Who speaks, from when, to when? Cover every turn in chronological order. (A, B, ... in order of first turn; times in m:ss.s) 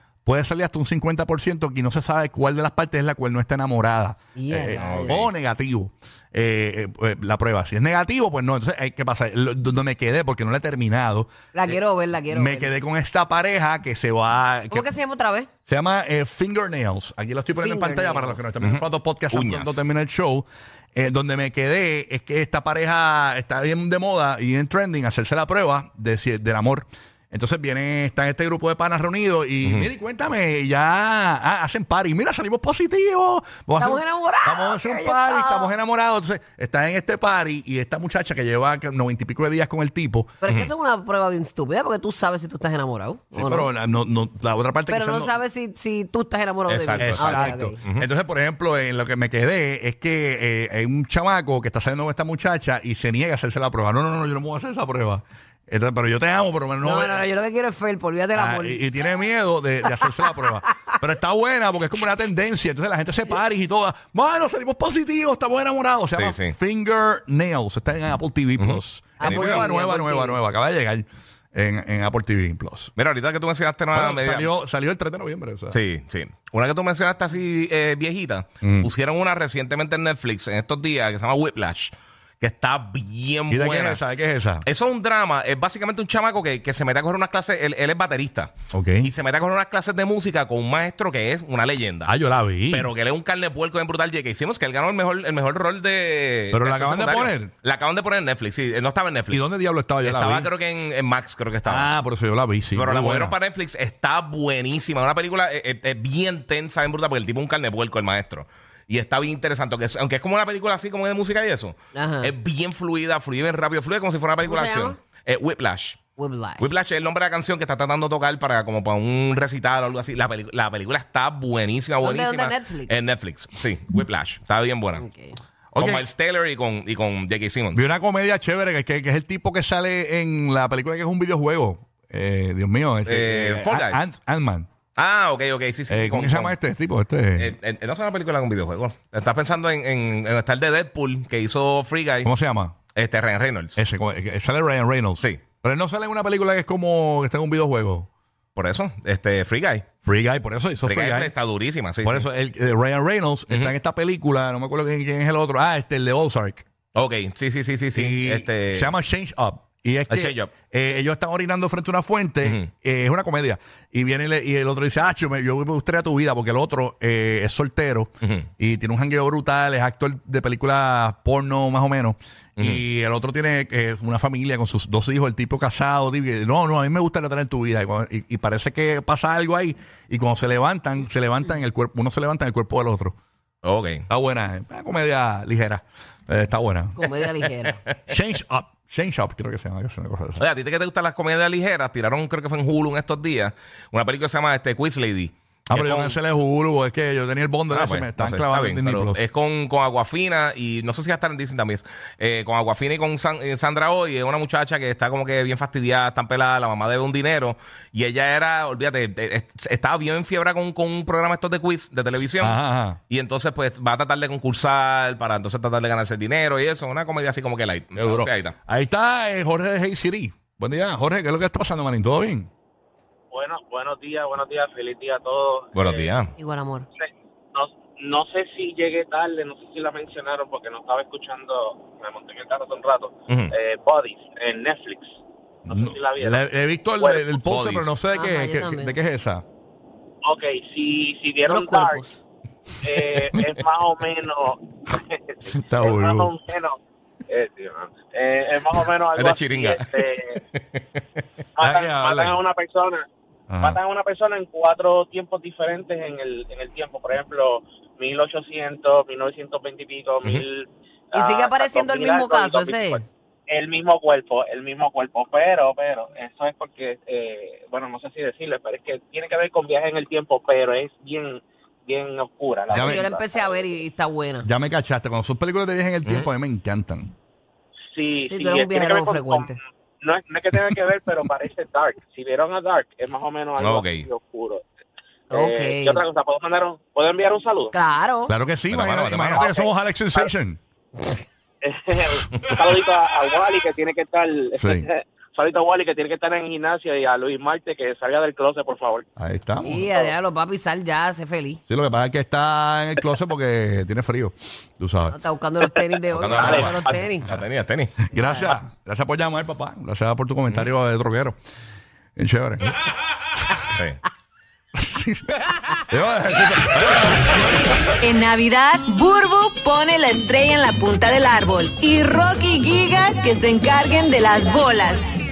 0:00.2-0:11.8 A
0:04.4-0:05.2 B
0:04.7-0:05.3 C
0:11.5-0:12.7 B
0:12.3-0:14.9 A
0:14.7-0:15.5 B
0:15.7-0:40.4 A
0:17.6-0:18.5 B
0:18.6-0:19.8 C
0:29.6-0:29.9 C
0:33.8-0:35.7 B
0:40.4-0:43.7 B
0:43.3-0:45.4 A
0:44.9-0:47.8 B
0:46.7-0:48.1 C
0:47.0-0:57.3 A
0:56.8-0:58.8 B
0:58.4-1:12.9 A
0:59.8-1:01.0 B
1:06.2-1:06.6 C
1:08.6-1:09.7 C
1:09.2-1:10.4 B
1:13.0-1:14.5 C
1:13.9-1:15.8 A
1:15.7-1:24.0 C
1:18.6-1:18.9 A
1:23.5-1:24.7 A
1:24.6-1:32.1 C
1:28.7-1:29.1 A
1:32.0-1:32.9 A
1:32.7-1:39.5 C
1:36.5-1:37.5 A
1:39.3-1:40.5 A
1:40.0-1:41.9 C
1:41.6-1:43.4 A
1:42.7-1:56.0 C
1:51.9-1:52.3 B
1:54.4-1:55.0 B
1:56.2-1:56.7 B
1:56.6-2:05.0 C
2:02.0-2:02.9 B
2:05.0-2:05.4 B
2:05.7-2:06.1 A
2:05.8-2:07.8 C
2:07.7-2:14.7 A
2:13.1-2:14.0 C
2:15.0-2:16.6 C
2:15.9-2:17.6 A
2:17.4-2:22.3 C
2:22.2-2:22.8 A
2:23.0-2:23.8 C
2:23.8-2:28.1 A
2:28.6-2:29.9 C
2:30.0-2:31.4 A
2:30.8-2:32.3 C
2:32.0-2:36.6 A
2:37.0-2:38.9 C
2:37.9-3:03.2 A
2:40.1-2:40.5 C
3:03.6-3:04.1 C
3:04.1-3:07.0 A
3:07.0-3:07.8 B
3:08.1-3:10.4 A
3:10.4-3:16.2 C
3:15.7-3:19.2 A
3:17.7-3:32.6 C
3:32.4-3:33.0 A
3:33.1-3:38.6 C
3:38.0-3:42.5 A
3:43.3-3:46.2 D
3:45.8-3:46.3 C
3:46.4-3:46.9 B
3:47.0-3:55.1 D
3:55.7-3:56.5 D
3:55.7-3:59.4 A
3:57.0-3:57.4 D
3:57.5-3:58.0 C
3:58.1-3:59.0 B
4:00.2-4:02.0 D
4:01.5-4:02.2 B
4:02.8-4:06.8 D
4:05.5-4:06.3 A
4:07.3-4:10.4 D
4:09.2-4:11.0 C
4:11.6-4:13.0 D
4:11.6-4:12.4 A
4:13.5-4:13.8 A
4:13.6-4:33.8 D
4:21.1-4:23.0 B
4:32.7-4:34.5 B
4:32.7-4:33.0 A
4:34.4-4:37.1 A
4:37.9-4:44.6 D
4:38.3-4:39.6 B
4:43.6-4:44.1 C
4:45.3-4:46.0 B
4:45.3-4:47.7 D
4:47.7-4:48.4 B
4:48.3-4:50.6 A
4:48.7-4:49.6 C
4:49.4-4:50.3 D
4:51.6-4:59.1 D
4:54.6-4:54.9 A
4:59.2-4:59.8 A
4:59.6-5:01.6 B
5:01.7-5:05.2 A
5:05.1-5:07.3 B
5:06.1-5:07.9 C
5:06.3-5:07.0 D
5:06.4-5:06.7 A
5:08.0-5:11.4 A
5:08.1-5:08.6 B
5:12.2-5:12.8 A
5:13.8-5:14.0 C
5:14.8-5:17.7 A
5:18.0-5:25.1 E